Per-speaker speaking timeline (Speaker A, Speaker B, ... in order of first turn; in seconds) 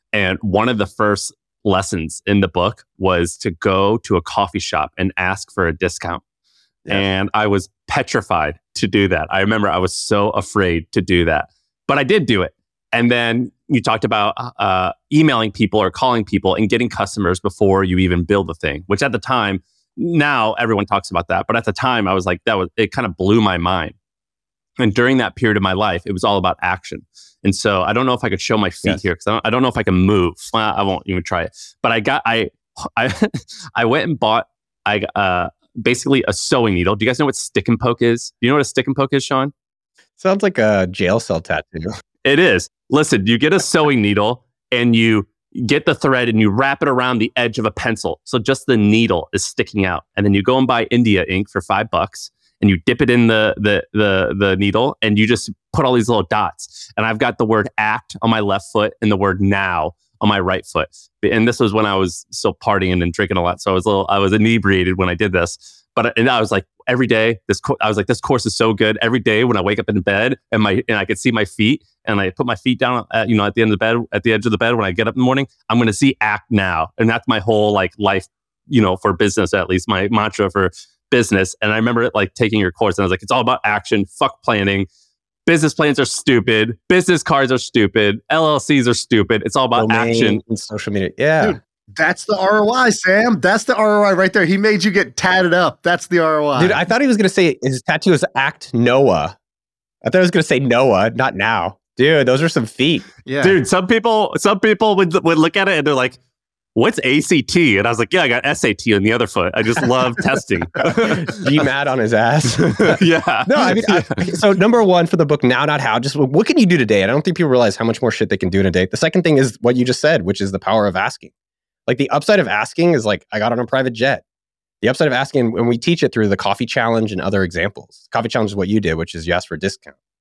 Speaker A: 0.1-6.2, 6.9-24.0, 24.8-39.5, 42.2-84.9, 85.5-90.4, 103.4-106.2, 106.8-111.5, 112.6-114.4
Speaker B: 40.2-42.0, 89.8-91.6, 96.6-99.4, 100.0-103.1, 110.8-121.3, 121.9-124.2, 124.8-129.9
Speaker C: 91.4-96.8, 103.2-103.6